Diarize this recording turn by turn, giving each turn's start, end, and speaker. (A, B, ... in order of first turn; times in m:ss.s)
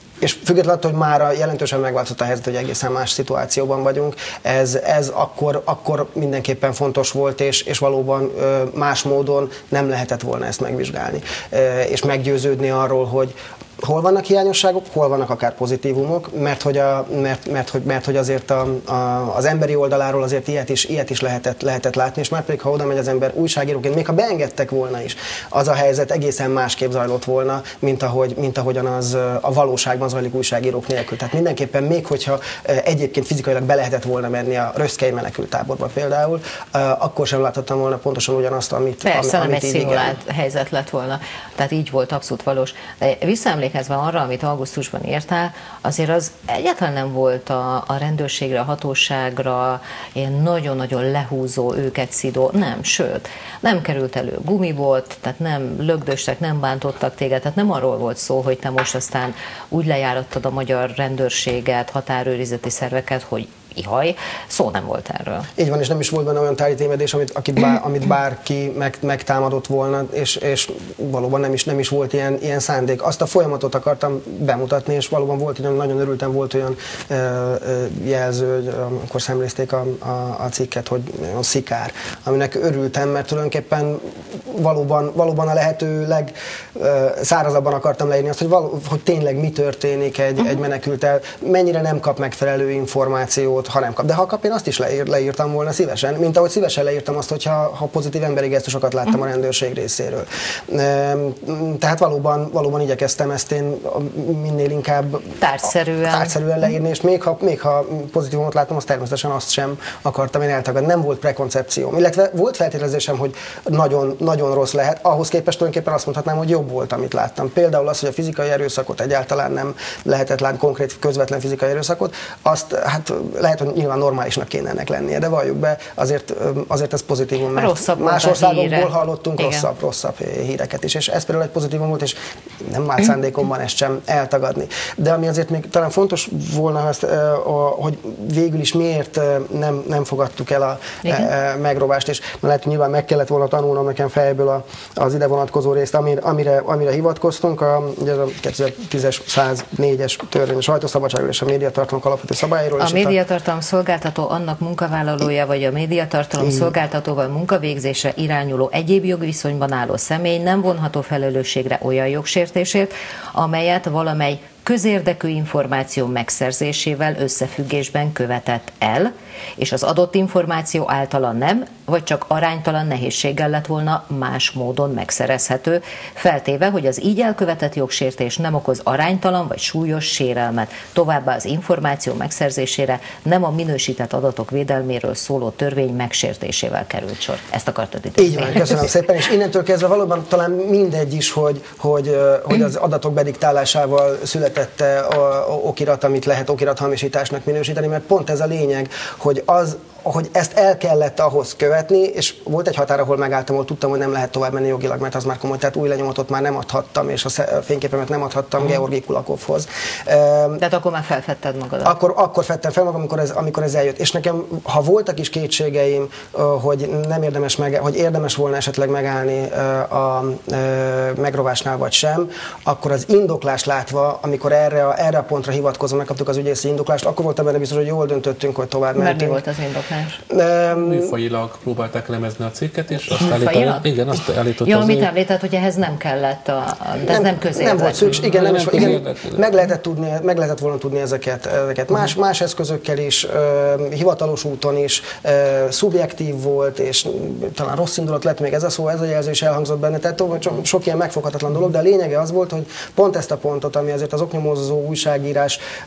0:00.2-0:40.1 A
0:39.0-1:05.5 B
1:05.6-1:45.3 A
1:45.4-1:46.3 B
1:46.0-2:33.2 A
2:07.5-2:09.7 B
2:21.0-2:21.3 B
2:32.8-3:08.9 B
2:36.4-2:36.7 A
3:08.2-3:30.6 A
3:30.6-3:31.9 B
3:31.8-3:49.4 A
3:48.9-3:50.2 B
3:50.3-3:51.1 A
3:50.7-3:55.1 C
3:53.2-3:53.9 B
3:54.6-3:58.2 B
3:57.1-4:15.6 A
3:58.0-3:59.4 C